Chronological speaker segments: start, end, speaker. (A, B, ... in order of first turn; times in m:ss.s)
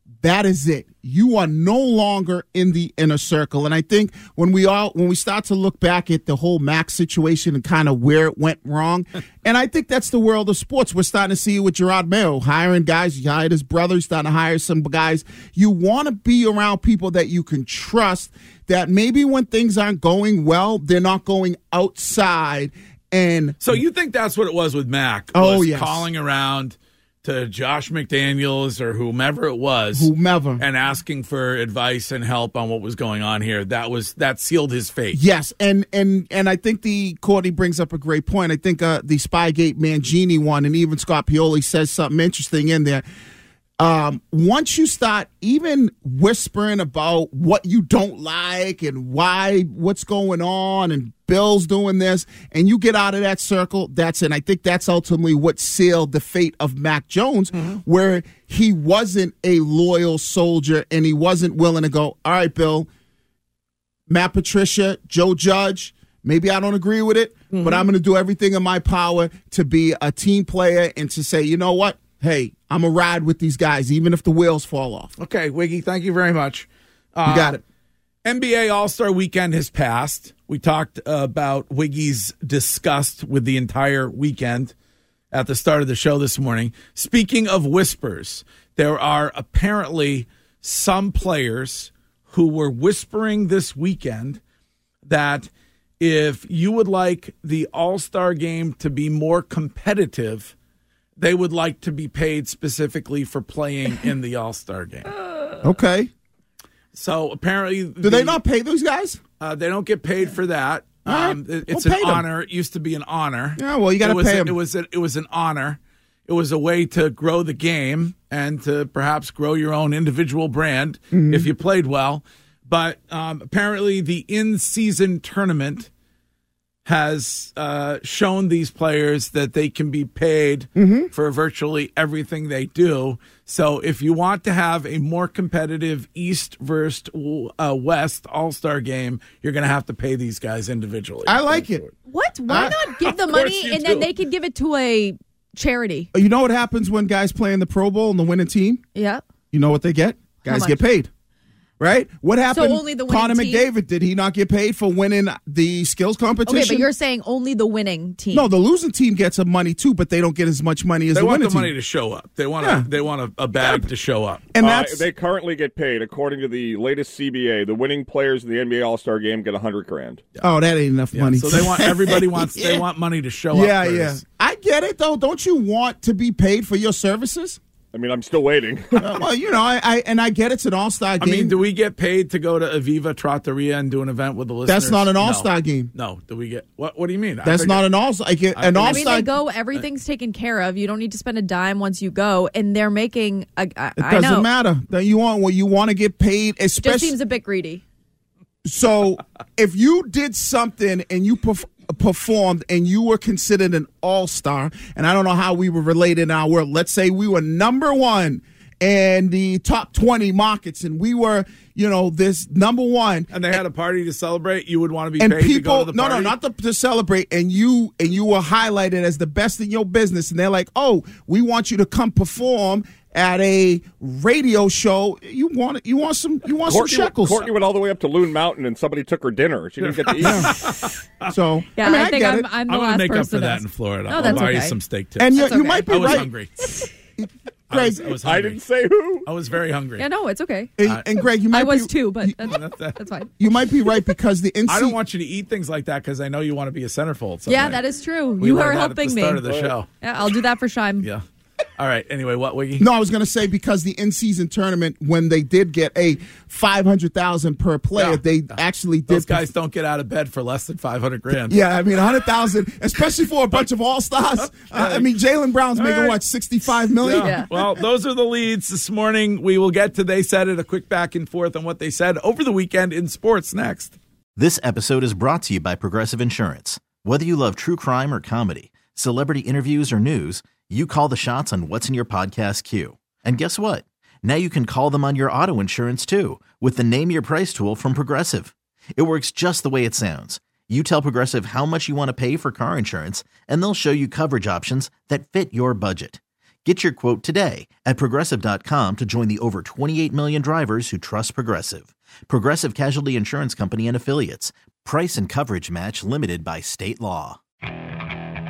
0:00.2-0:23.8 A
0:23.6-0:35.2 B
0:25.3-0:26.1 A
0:29.9-0:30.6 A
0:35.1-0:43.0 A
0:43.8-1:02.9 A
1:04.1-1:15.1 A
1:07.5-1:07.9 B
1:15.2-1:17.6 B
1:17.2-1:17.6 A
1:18.2-1:24.7 B
1:25.3-1:34.4 B
1:35.0-1:35.5 B
1:36.0-1:40.5 B
1:41.2-1:45.1 B
1:45.6-1:46.1 A
1:46.9-1:48.4 B
1:48.0-1:49.2 A
1:49.4-2:05.9 B
1:51.1-1:52.2 A
1:53.6-1:54.6 A
2:01.1-2:01.5 A
2:06.8-2:21.9 B
2:10.8-2:11.1 A
2:21.2-2:21.8 A
2:22.1-2:26.1 C
2:22.5-2:22.7 A
2:22.5-2:24.1 B
2:26.1-2:28.8 A
2:29.0-2:29.2 C
2:29.5-2:31.1 A
2:30.4-2:30.8 C
2:31.8-2:36.9 A
2:32.5-2:33.7 C
2:36.5-2:38.5 C
2:38.3-2:41.7 A
2:41.1-2:44.5 B
2:42.6-2:42.9 A
2:43.6-2:43.8 A
2:44.5-2:45.0 A
2:44.6-2:50.2 D
2:50.4-2:52.8 A
2:51.1-2:54.2 B
2:53.5-2:57.6 A
2:57.9-2:59.2 D
2:59.0-3:01.6 A
3:01.2-3:07.9 B
3:04.7-3:05.9 A
3:07.4-3:09.3 A
3:08.5-3:09.8 B
3:08.9-3:14.5 C
3:14.0-3:17.2 A
3:16.8-3:17.8 C
3:18.6-3:33.3 A
3:33.3-3:36.4 B
3:35.2-3:47.5 A
3:46.7-3:50.7 D
3:49.9-3:51.3 B
3:50.2-3:50.7 A
3:51.3-3:52.5 A
3:51.8-3:54.8 C
3:52.7-3:56.5 B
3:54.2-3:54.5 A
3:55.2-3:56.3 A
3:55.4-3:56.2 C
3:57.2-3:58.1 A
3:57.7-3:58.6 B
3:58.2-3:59.3 D
3:59.2-4:00.1 B
4:00.0-4:00.7 C
4:00.8-4:02.4 A
4:01.5-4:03.3 C
4:02.4-4:03.0 B
4:03.4-4:05.0 A
4:04.7-4:07.8 B
4:07.5-4:09.5 C
4:08.4-4:09.9 B
4:10.0-4:11.1 C
4:11.8-4:12.9 B
4:12.8-4:19.5 A
4:18.0-4:18.2 B
4:19.1-4:21.6 B
4:21.3-4:27.8 A
4:24.6-4:25.1 B
4:25.8-4:26.2 B
4:27.0-4:34.0 B
4:27.1-4:27.5 C
4:34.4-5:07.4 E